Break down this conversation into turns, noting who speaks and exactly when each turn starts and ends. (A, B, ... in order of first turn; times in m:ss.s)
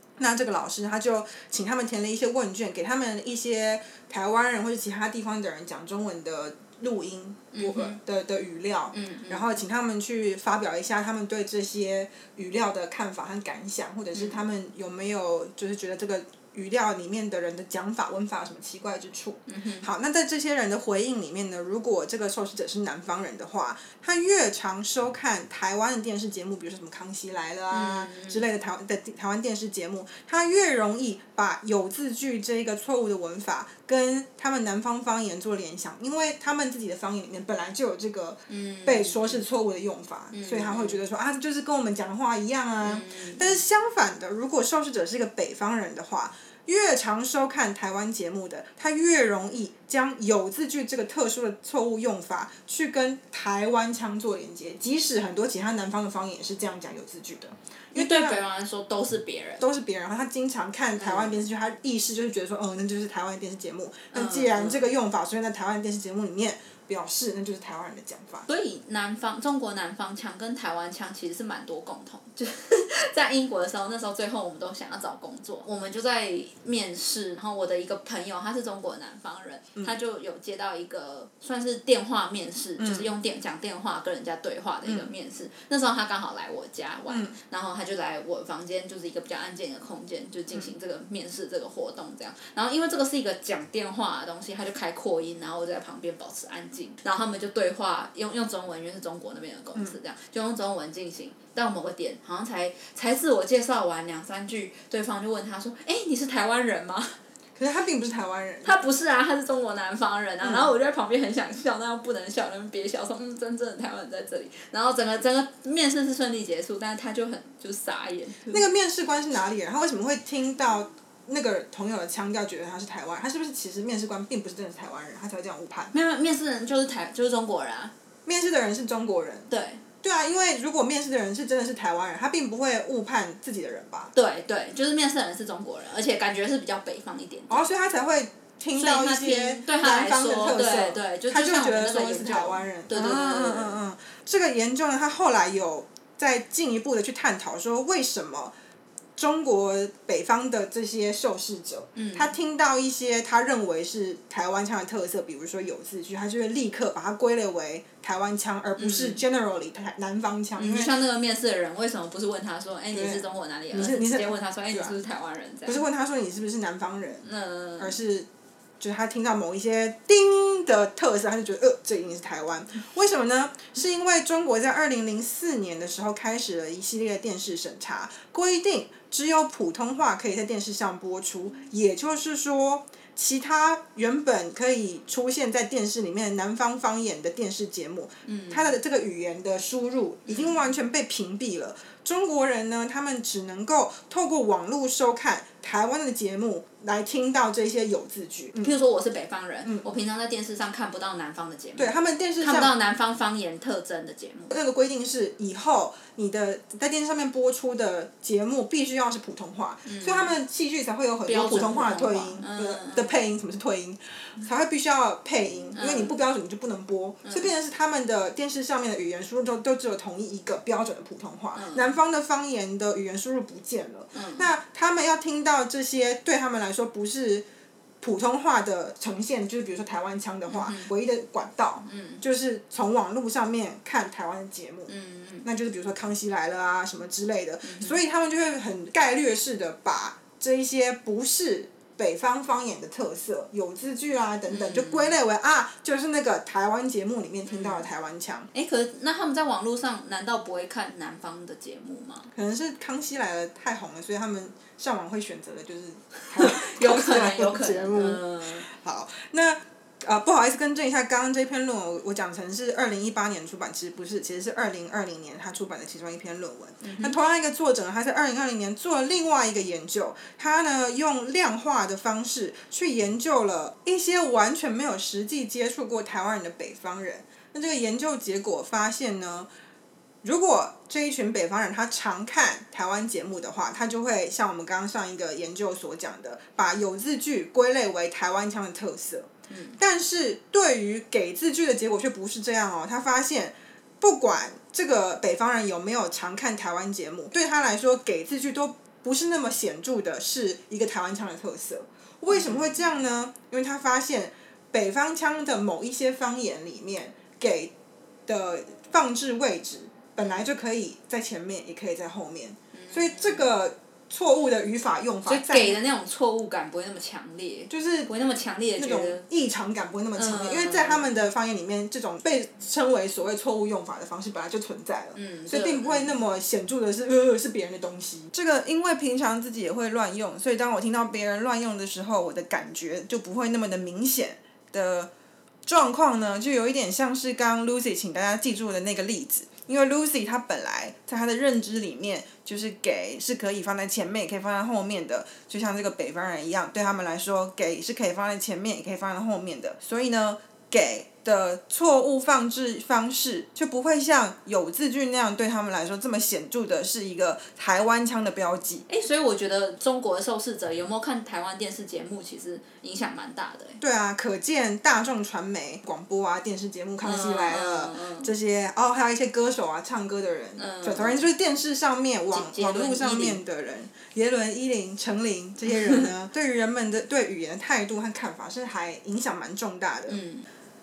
0:00.2-0:58.4 A
0:07.5-0:08.0 B
0:08.9-0:09.4 B
0:14.2-0:14.4 B
0:19.5-0:19.9 B
0:27.7-0:28.4 B
0:38.5-0:39.4 B
0:40.3-0:41.0 B
0:42.8-0:43.6 B
0:57.9-0:59.6 B
0:59.6-1:08.5 A
1:01.0-1:01.4 B
1:04.1-1:04.8 B
1:08.5-1:47.2 B
1:22.8-1:23.1 A
1:27.1-1:27.4 A
1:47.6-1:48.8 A
1:48.6-1:58.6 B
1:58.5-2:05.9 A
2:05.9-2:07.9 B
2:08.3-2:09.5 A
2:09.5-2:09.8 B
2:10.0-2:14.1 A
2:14.2-2:17.7 B
2:17.5-2:28.5 A
2:18.8-2:23.8 B
2:29.2-2:40.9 A
2:32.0-2:32.3 B
2:38.8-2:39.2 B
2:40.6-2:45.8 B
2:42.9-2:44.9 A
2:45.7-2:47.2 A
2:47.2-2:48.0 B
2:47.8-2:48.3 A
2:48.8-3:18.7 A
3:08.3-3:08.8 B
3:10.3-3:10.5 B
3:18.6-3:24.6 B
3:21.8-3:22.7 A
3:24.5-3:47.5 A
3:29.9-3:30.3 B
3:31.3-3:33.2 B
3:35.8-3:36.1 B
3:41.6-3:41.9 B
3:44.1-3:44.5 B
3:48.0-3:54.9 A
3:50.5-3:50.9 B
3:51.8-3:52.2 B
3:54.9-3:55.5 B
3:55.4-4:08.5 A
3:57.6-3:58.0 B
4:04.5-4:05.1 B
4:07.5-4:07.9 B
4:08.5-4:12.3 B
4:12.3-4:39.5 A
4:16.3-4:18.7 B
4:26.8-4:27.2 B
4:40.2-5:07.7 A
4:49.5-4:49.8 B
5:02.3-5:02.7 B
5:08.3-5:15.8 A
5:12.8-5:13.5 B
5:15.3-5:19.2 B
5:17.7-5:18.1 A
5:18.8-5:35.1 A
5:20.2-5:21.2 B
5:25.2-5:26.2 B
5:35.7-5:58.9 A
5:58.9-6:03.8 B
6:03.8-6:20.2 A
6:07.0-6:08.3 B
6:10.6-6:11.3 B
6:12.3-6:13.4 B
6:20.1-6:20.5 B